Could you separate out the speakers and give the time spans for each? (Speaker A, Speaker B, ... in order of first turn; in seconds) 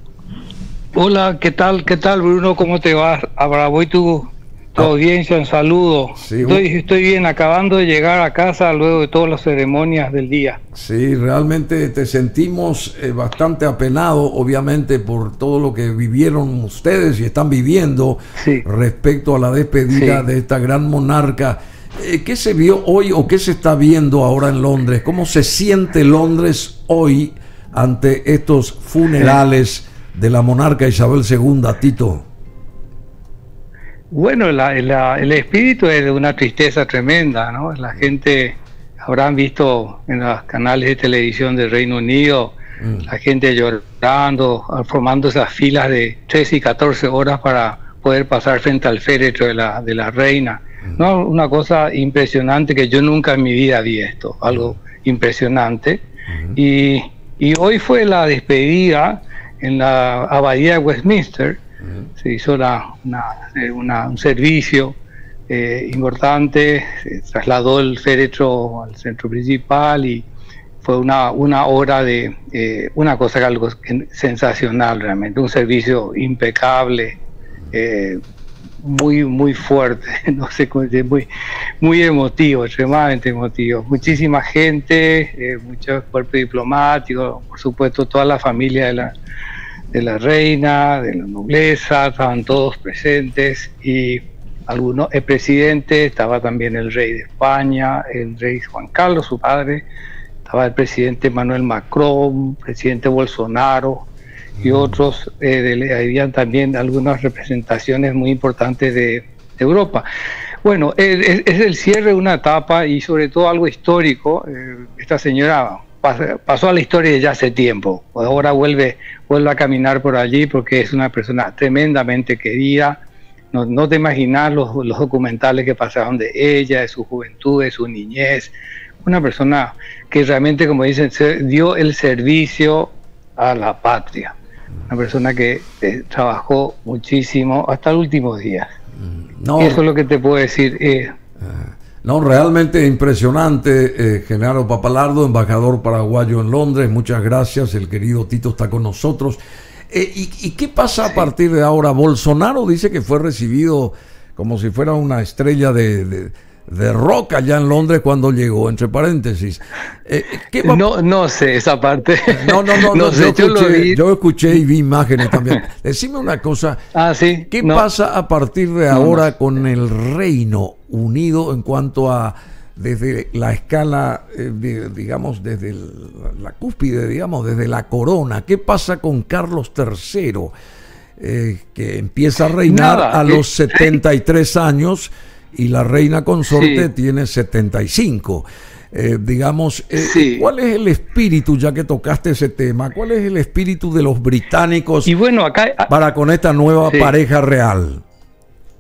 Speaker A: 1.0-10.6, 18.4-18.6, 19.9-20.3, 34.1-56.0, 56.5-61.6, 62.2-65.0, 65.5-70.3, 70.8-77.1, 77.7-78.2, 78.8-81.3, 81.8-89.1, 89.9-99.8, 100.5-104.1, 104.6-110.0, 110.6-123.0, 123.5-134.3, 134.9-138.7, 139.6-141.1, 160.6-164.0, 165.2-165.6, 166.9-167.9, 168.9-169.3, 182.7-184.0, 186.5-186.9, 190.0-190.5, 195.1-195.9, 196.9-197.1
Speaker B: 6.2-6.6, 10.8-32.2, 56.3-56.6, 139.2-139.8, 141.4-149.4, 149.9-160.8, 162.3-166.8, 167.5-180.5, 181.2-195.1, 195.9-198.0